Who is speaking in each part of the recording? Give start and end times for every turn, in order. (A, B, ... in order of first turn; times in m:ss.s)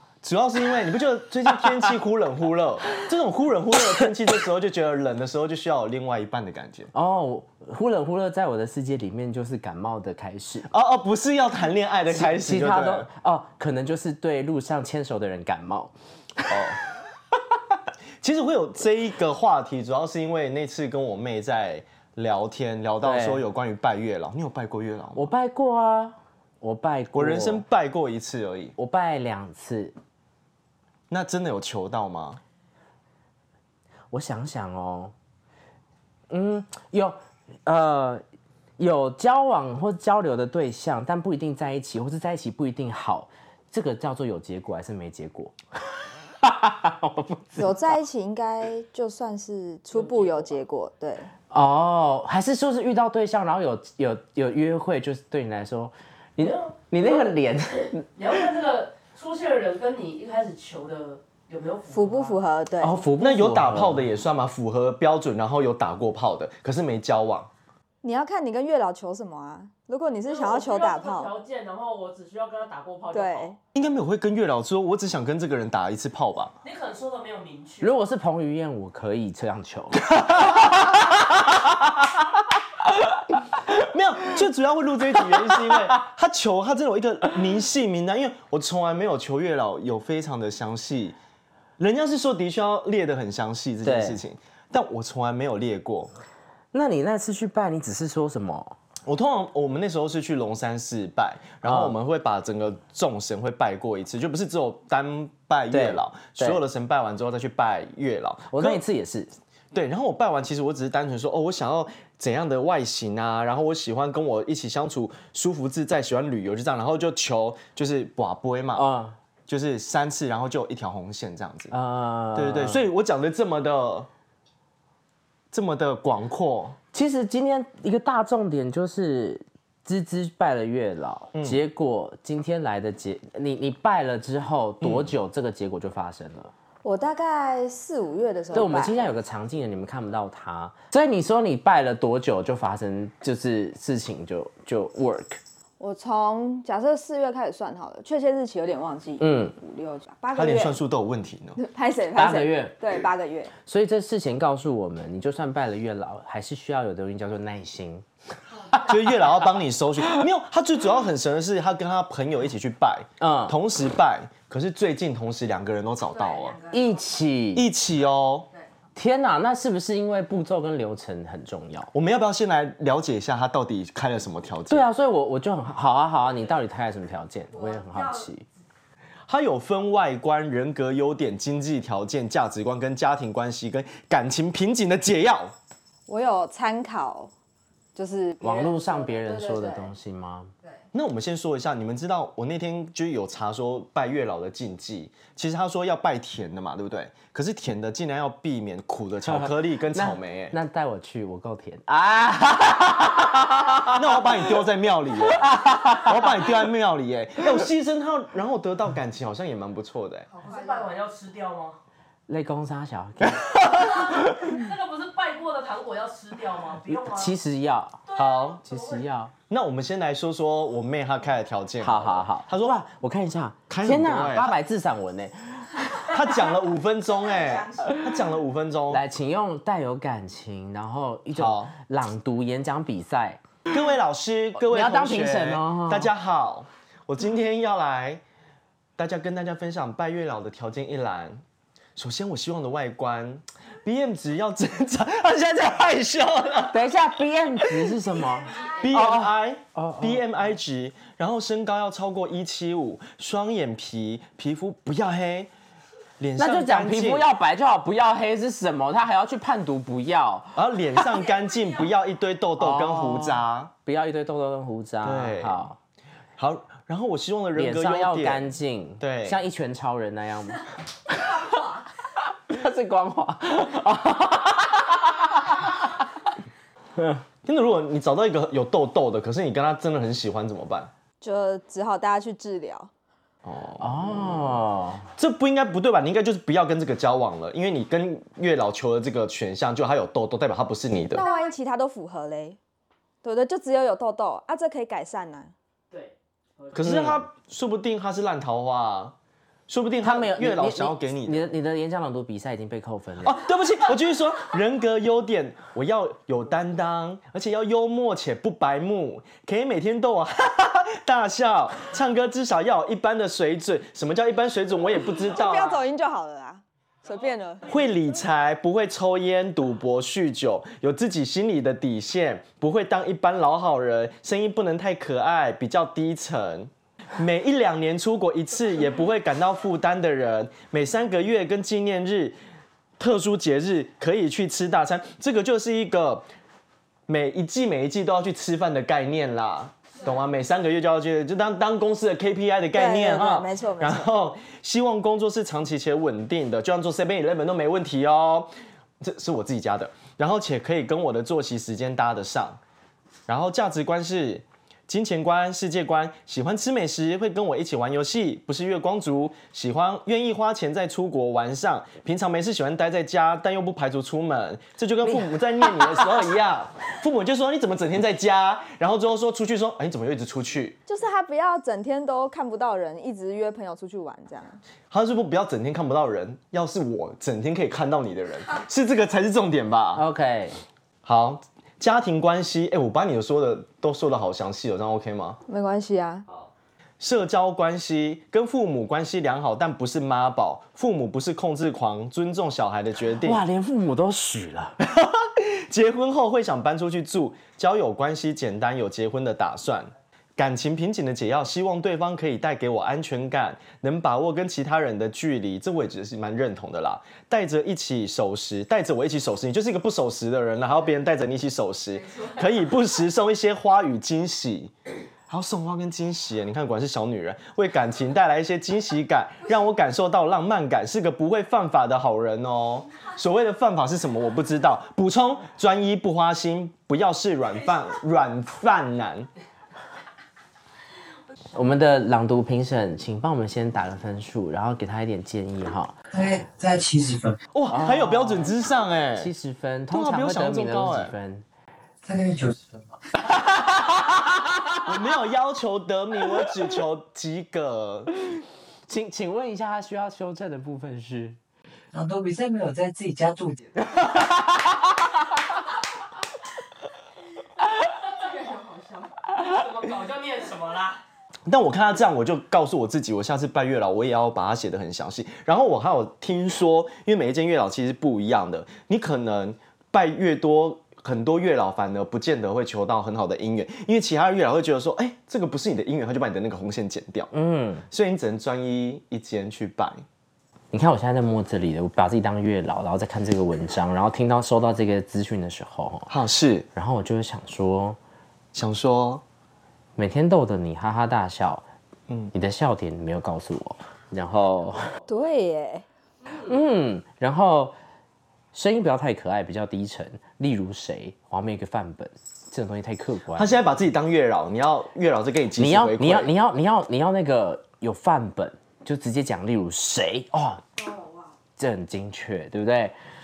0:00.2-0:06.9 A
0:06.9-0:10.7 B
0:10.7-0:13.1 A
0:12.1-0:16.8 B
0:16.5-0:16.8 A
0:18.2-0:25.3 A
0:23.0-0:23.4 B
0:25.2-0:27.6 B
0:27.1-0:28.8 A
0:28.8-0:29.9 B
0:31.1-0:32.4 A
0:34.1-0:35.1 B
0:36.3-0:38.2 B
0:38.8-0:45.6 B
0:46.4-0:48.0 B
0:47.6-0:51.3 C
0:49.9-0:50.5 D
0:51.5-0:58.1 B
0:58.2-1:02.4 D
1:01.9-1:03.0 C
1:02.8-1:04.1 B
1:03.2-1:07.5 A
1:08.0-1:11.3 C
1:10.3-1:13.6 D
1:13.1-1:13.6 C
1:13.7-1:16.5 A
1:16.6-1:17.9 D
1:17.8-1:21.1 B
1:20.2-1:20.9 A
1:21.5-1:21.9 A
1:23.8-1:31.2 A
1:31.8-1:36.1 A
1:33.8-1:34.2 B
1:36.7-1:38.8 B
1:39.0-1:48.8 A
1:41.6-1:42.0 B
1:45.7-1:46.6 B
1:48.5-1:49.3 B
1:49.7-1:58.9 A
1:58.8-1:59.2 B
1:59.5-2:01.7 A
2:01.7-2:02.8 B
2:02.3-2:04.1 A
2:05.5-2:06.8 A
2:06.9-2:16.5 B
2:11.3-2:11.6 A
2:14.8-2:15.1 A
2:16.8-2:19.1 C
2:18.5-2:25.4 B
2:25.8-2:30.8 C
2:29.2-2:29.5 B
2:30.3-2:31.6 A
2:31.6-2:33.5 C
2:32.2-2:32.8 B
2:33.7-2:38.0 B
2:38.8-2:46.6 A
2:43.2-2:43.6 B
2:46.7-2:47.7 B
2:47.6-2:48.5 A
2:49.0-2:51.9 B
2:51.9-2:54.9 A
2:54.7-2:58.5 B
2:59.3-3:05.6 A
3:06.1-3:07.3 C
3:07.9-3:09.9 C
3:08.4-3:10.5 B
3:10.9-3:20.6 A
3:19.3-3:24.2 B
3:23.8-3:30.3 A
3:25.3-3:26.2 B
3:30.4-3:31.8 D
3:32.3-3:34.5 B
3:33.8-3:37.3 D
3:36.9-3:38.0 B
3:38.1-3:39.1 D
3:38.2-3:38.6 A
3:38.7-3:39.3 B
3:39.5-3:42.8 A
3:41.8-3:46.1 B
3:43.7-3:44.6 A
3:46.0-3:49.0 A
3:48.9-3:53.4 B
3:51.3-3:51.7 A
3:53.7-3:58.2 A
3:54.6-3:56.1 B
3:59.0-4:01.4 A
4:02.0-4:07.0 A
4:06.6-4:10.3 B
4:07.6-4:08.0 A
4:08.6-4:15.5 A
4:16.2-4:17.3 A
4:16.4-4:21.1 B
4:20.6-4:23.7 A
4:22.6-4:25.8 B
4:25.0-4:25.6 A
4:26.4-4:29.4 A
4:27.6-4:31.7 B
4:32.2-4:36.1 B
4:37.0-4:37.2 B
4:37.4-4:40.9 A
4:41.2-4:42.9 C
4:43.4-4:44.5 A
4:43.8-4:45.1 B
4:45.2-4:51.2 A
4:51.1-4:52.6 C
4:53.2-4:55.5 C
4:55.9-4:57.1 D
4:56.7-4:59.1 A
4:59.7-5:01.5 A
5:00.0-5:03.4 B
5:03.2-5:15.8 A
5:15.3-5:17.6 C
5:17.7-5:32.4 A
5:33.0-5:36.3 A
5:37.1-5:48.5 A
5:42.7-5:44.1 C
5:49.0-5:52.6 A
5:53.3-6:10.8 A
6:10.9-6:14.6 C
6:14.9-6:20.0 A
6:19.9-6:20.6 B
6:21.0-6:25.4 A
6:25.5-6:26.3 C
6:27.0-6:33.4 A
6:33.2-6:34.8 B
6:34.8-6:54.7 A
6:55.3-7:09.3 A
7:11.5-7:15.9 B
7:16.1-7:17.4 E
7:17.5-7:19.3 A
7:17.7-7:18.6 B
7:19.2-7:21.4 B
7:19.9-7:21.1 A
7:22.0-7:23.0 E
7:23.4-7:24.4 B
7:24.9-7:28.1 A
7:28.9-7:31.4 B
7:31.9-7:33.9 E
7:34.1-7:34.9 B
7:38.2-7:39.1 C
7:39.3-7:41.0 D
7:41.5-7:57.3 A
7:57.3-7:57.8 B
7:57.9-8:00.0 A
8:00.7-8:06.1 B
8:06.1-8:06.7 A
8:06.7-8:08.0 B
8:08.5-8:09.2 A
8:10.0-8:11.6 B
8:12.3-8:14.9 B
8:15.1-8:15.8 C
8:16.3-8:17.8 B
8:18.5-8:23.6 B
8:23.4-8:26.3 A
8:25.6-8:30.6 B
8:30.8-8:31.3 C
8:31.6-8:33.0 B